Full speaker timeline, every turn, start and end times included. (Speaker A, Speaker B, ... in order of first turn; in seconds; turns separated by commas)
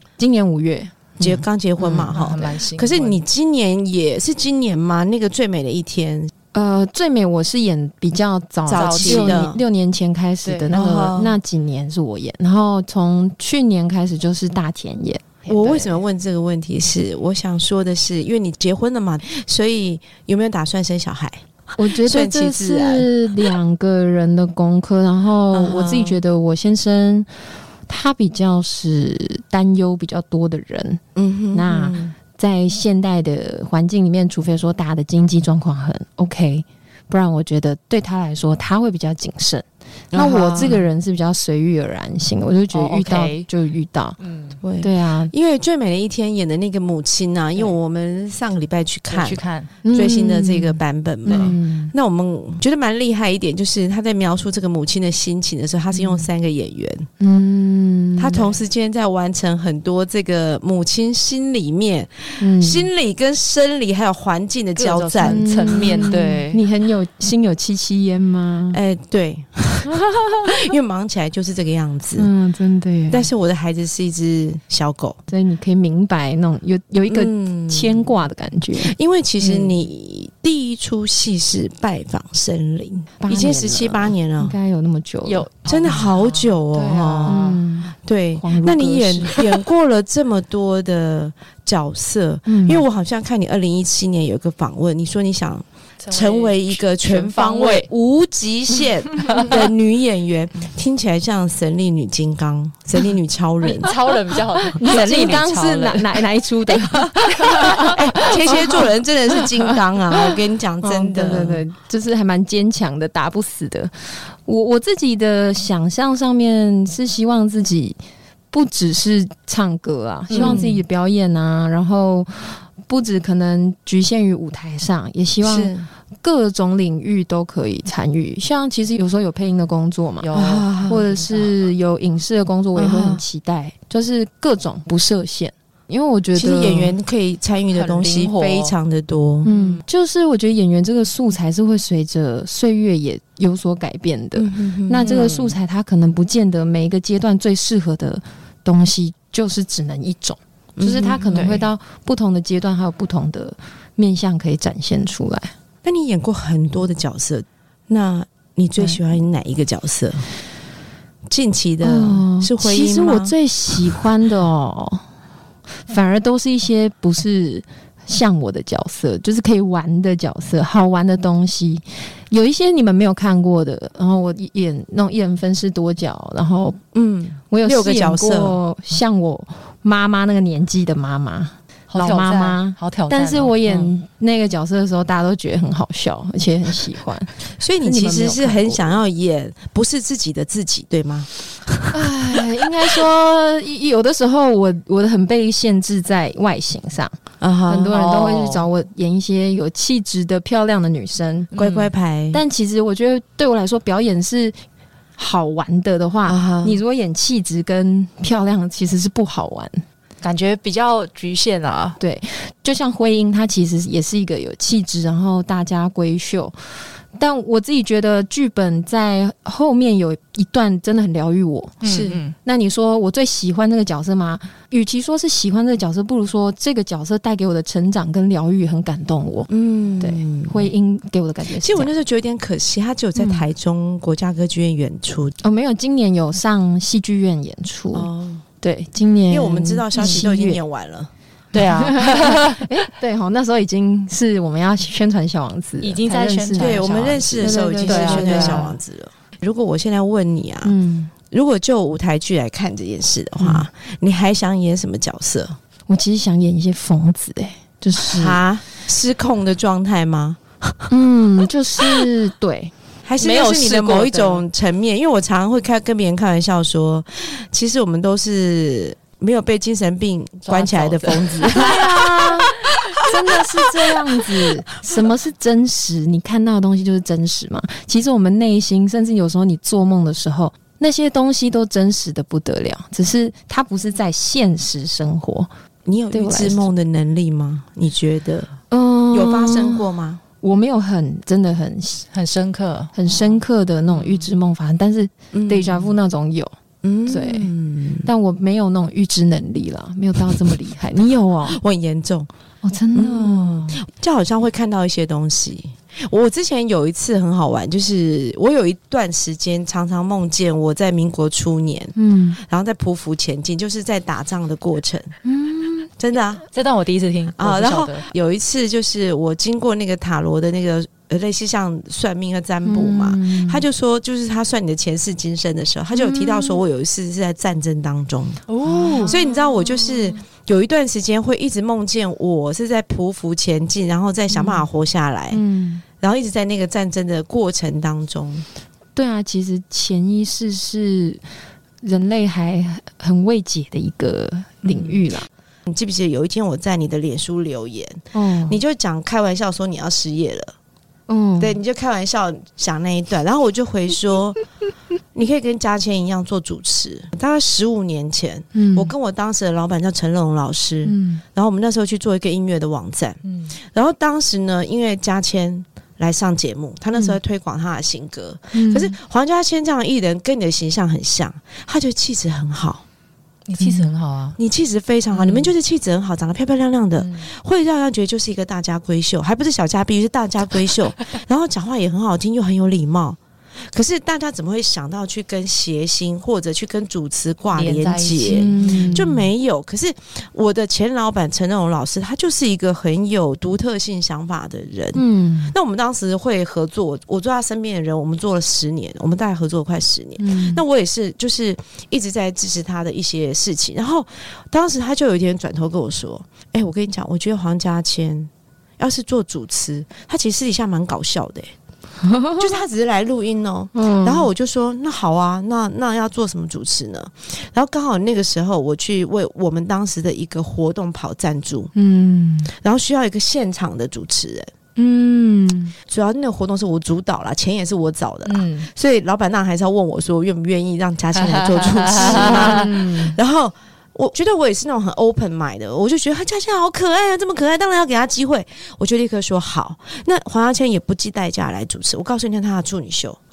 Speaker A: 0.2-1.0, Speaker B: 1.2-6.3, Speaker C: 1.8-3.2, Speaker A: 6.5-16.0, Speaker B: 8.7-9.6, Speaker C: 8.7-9.5, Speaker C: 10.4-10.8, Speaker B: 10.7-11.4, Speaker B: 15.5-23.1, Speaker A: 21.8-27.3, Speaker B: 25.5-26.2, Speaker A: 27.9-31.0, Speaker B: 31.1-32.1, Speaker A: 31.5-44.2, Speaker B: 40.1-40.8, Speaker C: 42.7-43.5, Speaker C: 44.2-44.6, Speaker B: 44.6-57.1, Speaker A: 44.8-45.3, Speaker C: 49.1-49.7, Speaker A: 49.8-51.9, Speaker A: 56.0-56.2, Speaker A: 57.2-58.5, Speaker B: 58.2-66.0, Speaker A: 62.4-62.9, Speaker C: 64.8-66.6, Speaker A: 65.2-68.8, Speaker B: 68.7-72.3, Speaker A: 69.9-70.4, Speaker A: 72.2-73.3, Speaker B: 73.1-75.2, Speaker A: 75.3-78.9, Speaker B: 77.1-78.1, Speaker B: 78.8-84.5, Speaker C: 79.4-79.8, Speaker A: 83.2-85.5, Speaker C: 85.2-87.6, Speaker B: 85.7-104.0, Speaker A: 87.3-89.4, Speaker A: 92.5-92.8, Speaker C: 96.0-97.9, Speaker C: 103.6-108.3, Speaker A: 104.7-108.9, Speaker B: 107.6-111.6, Speaker A: 110.8-118.0, Speaker A: 118.5-130.3, Speaker B: 120.3-120.8, Speaker C: 120.3-120.7, Speaker B: 125.4-125.9, Speaker C: 130.2-131.5, Speaker B: 130.3-131.0, Speaker A: 130.8-136.9, Speaker B: 132.8-133.2, Speaker B: 136.3-139.5, Speaker C: 137.7-138.7, Speaker A: 139.4-155.5, Speaker C: 139.4-139.8, Speaker B: 144.3-145.2, Speaker C: 145.0-145.6, Speaker B: 150.8-151.6, Speaker C: 151.3-151.6, Speaker B: 155.8-160.2, Speaker B: 161.3-163.3, Speaker A: 161.8-165.0, Speaker A: 165.9-176.8, Speaker B: 176.9-178.6, Speaker A: 177.5-189.0, Speaker C: 181.9-183.9, Speaker B: 187.6-191.9, Speaker A: 191.9-197.2, Speaker B: 197.4-198.0, Speaker A: 197.7-201.5, Speaker C: 197.9-198.7, Speaker C: 201.5-201.9, Speaker B: 201.5-202.4, Speaker A: 202.3-204.6, Speaker A: 205.2-209.8, Speaker B: 206.3-206.8, Speaker C: 210.2-212.0, Speaker A: 212.0-221.8, Speaker C: 221.8-222.3, Speaker B: 221.8-222.2, Speaker A: 222.4-231.9, Speaker B: 229.5-230.7, Speaker B: 231.6-235.3, Speaker A: 233.2-233.5, Speaker A: 235.4-238.1, Speaker B: 237.9-238.4, Speaker A: 238.6-240.6, Speaker B: 239.3-241.1, Speaker C: 241.5-242.7, Speaker A: 241.7-246.8, Speaker C: 245.8-248.7, Speaker B: 246.6-250.7, Speaker A: 247.4-248.7, Speaker A: 250.6-251.1, Speaker B: 251.3-255.6, Speaker A: 255.9-258.4, Speaker B: 258.0-260.9, Speaker A: 260.9-262.7, Speaker B: 263.0-272.0, Speaker C: 263.2-264.4, Speaker C: 270.4-271.9, Speaker A: 271.4-285.5, Speaker B: 285.9-288.5, Speaker A: 286.1-286.7, Speaker A: 288.7-289.9, Speaker B: 289.1-290.2, Speaker A: 290.4-292.1, Speaker C: 292.1-292.9, Speaker A: 292.9-296.5, Speaker B: 293.1-293.4, Speaker B: 295.3-295.9, Speaker B: 296.8-298.1, Speaker A: 297.1-297.5, Speaker A: 298.0-301.6, Speaker B: 301.5-302.3, Speaker A: 302.6-303.8, Speaker B: 302.9-315.1, Speaker A: 311.9-312.4, Speaker A: 315.2-315.9, Speaker B: 316.0-316.4, Speaker C: 316.5-318.1, Speaker B: 317.4-328.4, Speaker A: 322.6-323.6, Speaker A: 325.9-326.6, Speaker C: 328.5-329.3, Speaker A: 328.6-329.1, Speaker B: 329.0-335.4, Speaker A: 334.3-334.6, Speaker A: 335.3-335.8, Speaker B: 336.0-338.4, Speaker A: 338.9-341.2, Speaker A: 341.8-345.3, Speaker C: 344.6-344.9, Speaker B: 345.7-350.5, Speaker A: 348.1-348.6, Speaker A: 351.1-351.6, Speaker B: 351.4-354.4, Speaker B: 355.1-372.8, Speaker A: 358.5-358.9, Speaker A: 360.8-361.2, Speaker C: 363.2-363.5, Speaker A: 368.5-368.9, Speaker C: 373.5-374.4, Speaker A: 373.6-373.9, Speaker B: 374.4-411.5, Speaker C: 375.1-375.5, Speaker C: 377.0-377.2, Speaker C: 387.5-389.1, Speaker A: 388.3-389.2, Speaker A: 394.9-395.5, Speaker A: 400.2-400.6, Speaker A: 412.0-412.6, Speaker B: 412.4-421.7, Speaker A: 413.7-414.3, Speaker A: 421.7-422.5, Speaker B: 422.6-424.5, Speaker A: 424.8-425.7, Speaker B: 425.9-443.2, Speaker C: 428.2-428.7, Speaker C: 431.2-432.7, Speaker A: 431.9-433.1